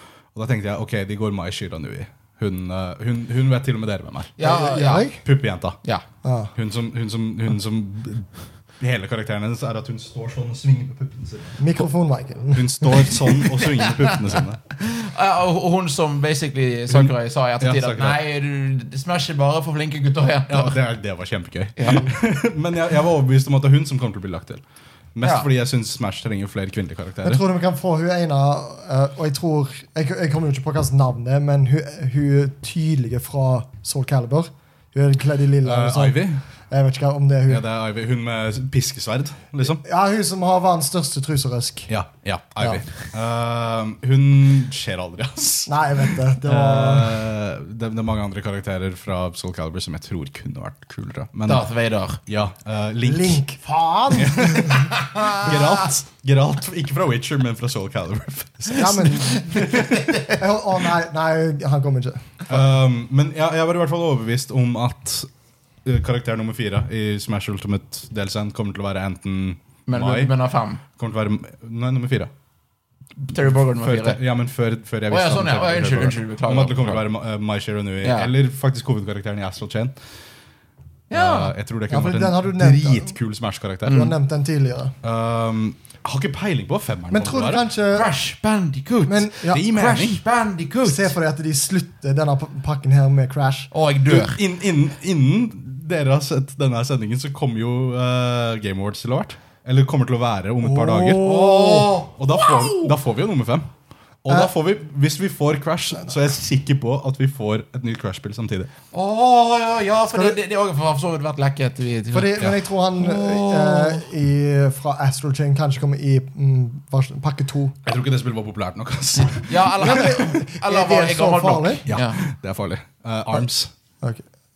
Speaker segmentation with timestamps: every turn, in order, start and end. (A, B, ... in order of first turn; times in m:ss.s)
0:00.3-0:04.4 A
0:04.4-0:05.1 B
0:04.4-0:05.2 C
0:05.2-0:05.8 A
0:06.2-0:06.5 C
0:06.5-0:11.8 A
0:11.6-0:13.2 C
0:12.5-0:14.6 A
0:13.6-0:20.8 B
0:16.9-0:18.2 A
0:20.5-0:24.6 A
0:21.8-0:22.1 B
0:25.1-0:27.4 A
0:25.2-0:25.5 B
0:27.2-0:37.6 C
0:35.6-0:36.4 A
0:37.5-0:39.8 A
0:39.8-0:41.9 C
0:41.9-0:51.6 A
0:45.7-0:47.3 C
0:51.5-0:52.2 B
0:52.2-0:53.4 A
0:53.0-0:54.9 C
0:54.2-1:00.0 A
0:54.9-0:55.8 B
0:58.7-1:02.4 C
0:59.5-1:00.4 B
1:02.5-1:05.3 A
1:05.8-1:10.3 A
1:09.9-1:10.8 B
1:11.0-1:12.3 A
1:13.2-1:14.2 B
1:13.4-1:20.0 A
1:15.1-1:17.0 B
1:18.0-1:18.3 B
1:21.1-1:21.5 B
1:21.1-1:24.1 A
1:21.9-1:23.2 C
1:23.9-1:24.1 B
1:23.9-1:24.9 C
1:25.0-1:27.6 A
1:27.1-1:28.1 C
1:27.9-1:31.1 B
1:29.0-1:29.6 C
1:29.5-1:30.2 A
1:30.8-1:33.7 C
1:33.7-1:34.4 B
1:34.0-1:41.3 A
1:40.6-1:41.9 C
1:41.2-1:42.9 B
1:42.2-1:43.7 A
1:44.2-1:48.7 A
1:48.9-1:54.0 B
1:50.1-1:50.4 C
1:52.1-1:57.8 C
1:57.8-1:59.9 A
1:59.2-2:02.2 B
1:59.8-2:01.8 C
2:01.9-2:03.7 A